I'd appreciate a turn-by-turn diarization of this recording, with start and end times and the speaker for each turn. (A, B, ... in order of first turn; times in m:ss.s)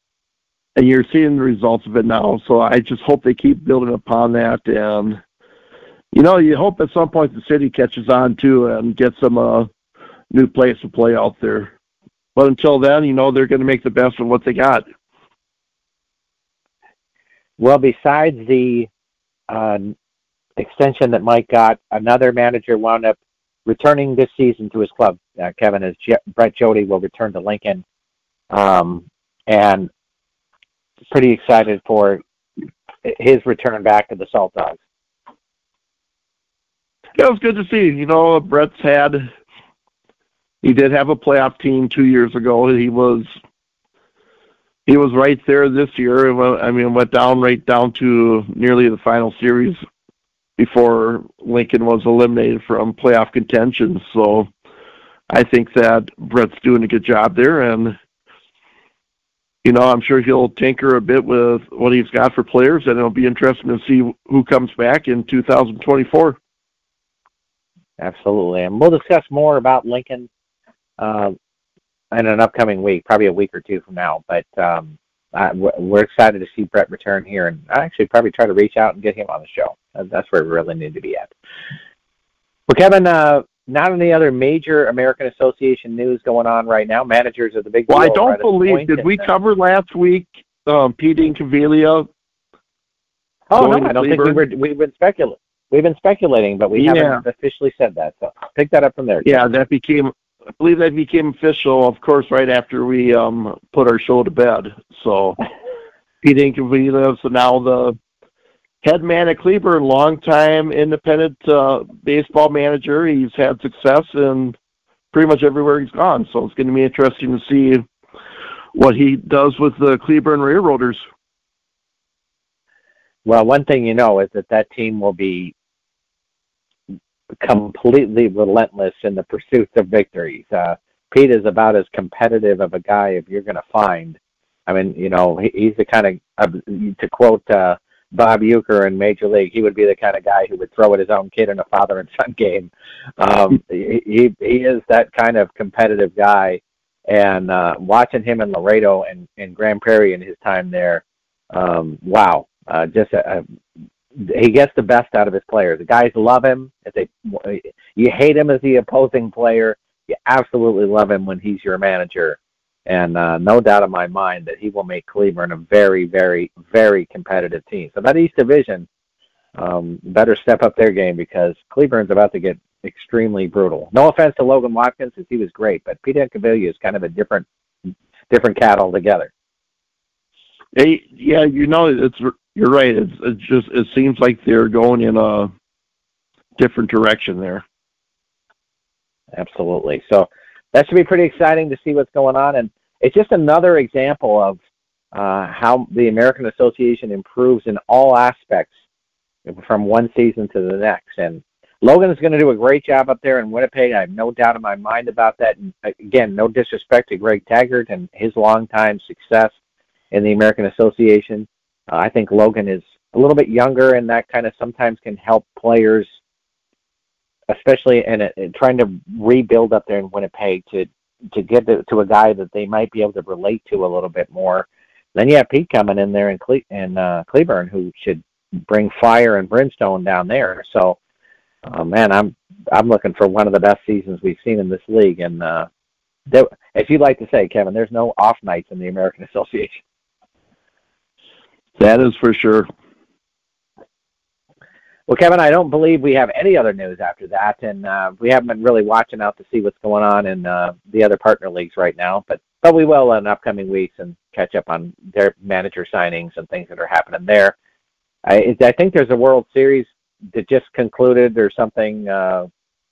0:00.8-0:05.2 A
0:06.1-0:09.7 A
0:10.3-0:11.7 A
0:12.4-0:14.8 A
0:17.6-0:18.9 B
0:19.5-0:20.0 B
0:20.6-0:27.8 B
0:28.5-0:29.9 B
0:31.1-0:32.2 B
0:33.0-0:34.8 B
0:37.2-0:39.2 A
0:40.6-0:43.3 A
0:44.9-0:49.8 A
0:50.6-0:54.5 A
0:55.3-0:58.0 A
0:59.6-1:06.4 A
1:08.0-1:10.3 B
1:11.0-1:11.4 B
1:12.1-1:21.3 B
1:22.7-1:29.3 B
1:27.9-1:32.1 A
1:33.5-1:39.4 B
1:33.6-1:34.4 A
1:36.8-1:37.2 A
1:39.2-1:45.4 A
1:46.2-1:48.0 A
1:48.8-1:54.6 A
1:55.1-1:57.9 A
1:58.7-2:01.0 A
2:03.2-2:05.5 B
2:07.4-2:33.4 B
2:34.2-2:48.9 B
2:49.6-2:59.3 B
3:00.8-3:05.5 A
3:06.6-3:07.6 A
3:09.3-3:14.6 B
3:15.1-3:18.7 B
3:19.5-3:29.5 B
3:30.1-3:36.1 B
3:37.5-3:51.0 B
3:51.7-3:55.7 B
3:56.3-3:59.8 B
4:01.8-4:02.7 A
4:05.1-4:17.6 B
4:18.3-4:22.5 B